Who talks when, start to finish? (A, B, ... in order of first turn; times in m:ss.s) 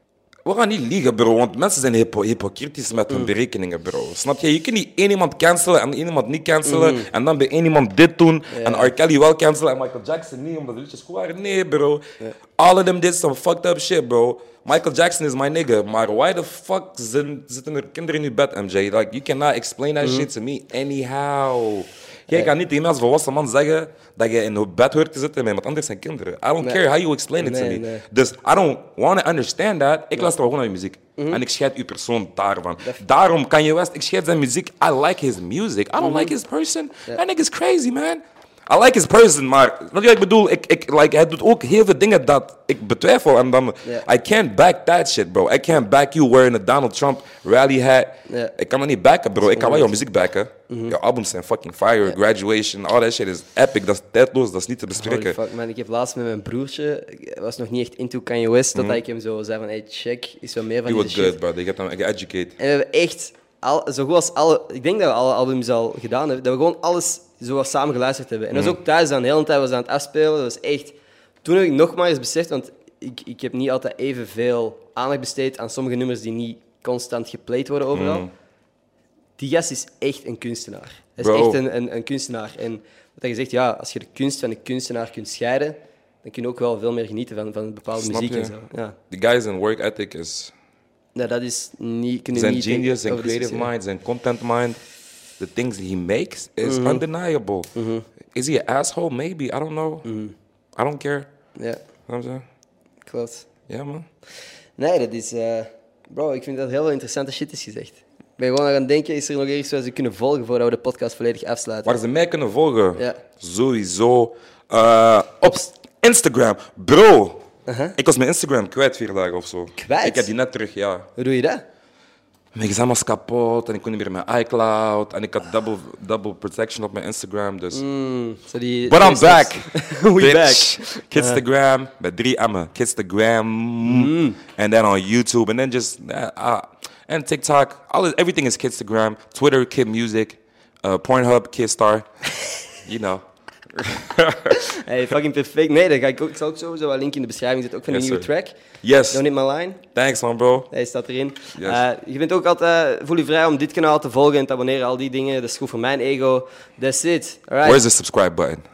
0:00.4-0:12.0 A
0:06.6-0:07.1 B
0:08.5-0:08.9 B
0:12.6-0:55.4 A
0:20.0-0:20.3 B
0:27.4-0:28.0 B
0:31.2-0:31.4 B
0:36.0-0:36.3 B
0:48.3-0:48.5 B
0:49.4-0:49.9 B
0:50.7-0:50.9 B
0:54.9-1:01.4 B
0:58.7-0:59.0 A
1:00.8-1:02.5 A
1:02.6-1:18.3 B
1:17.9-1:18.3 A
1:19.4-1:29.0 B
1:21.2-1:21.6 A
1:28.0-1:28.5 A
1:29.1-1:30.5 A
1:31.1-1:33.7 B
1:32.3-1:34.8 A
1:35.4-1:37.7 A
1:36.6-1:37.0 B
1:37.7-1:38.0 B
1:38.3-1:40.0 A
1:40.0-1:40.3 B
1:40.8-1:41.3 A
1:42.1-1:42.4 A
1:43.1-1:43.5 B
1:43.7-1:44.0 A
1:44.8-1:51.9 B
1:51.8-1:57.4 A
1:57.7-1:57.9 B
1:58.0-2:01.1 A
1:59.8-2:00.3 B
2:01.2-2:01.6 B
2:02.5-2:07.8 A
2:07.7-2:11.4 B
2:08.8-2:22.1 A
2:13.8-2:14.4 B
2:22.8-2:24.7 A
2:24.5-2:28.6 B
2:27.9-2:28.3 A
2:28.8-2:29.2 A
2:29.1-2:29.8 B
2:29.9-2:30.7 A
2:30.7-2:37.8 B
2:31.5-2:31.8 A
2:37.6-2:38.6 A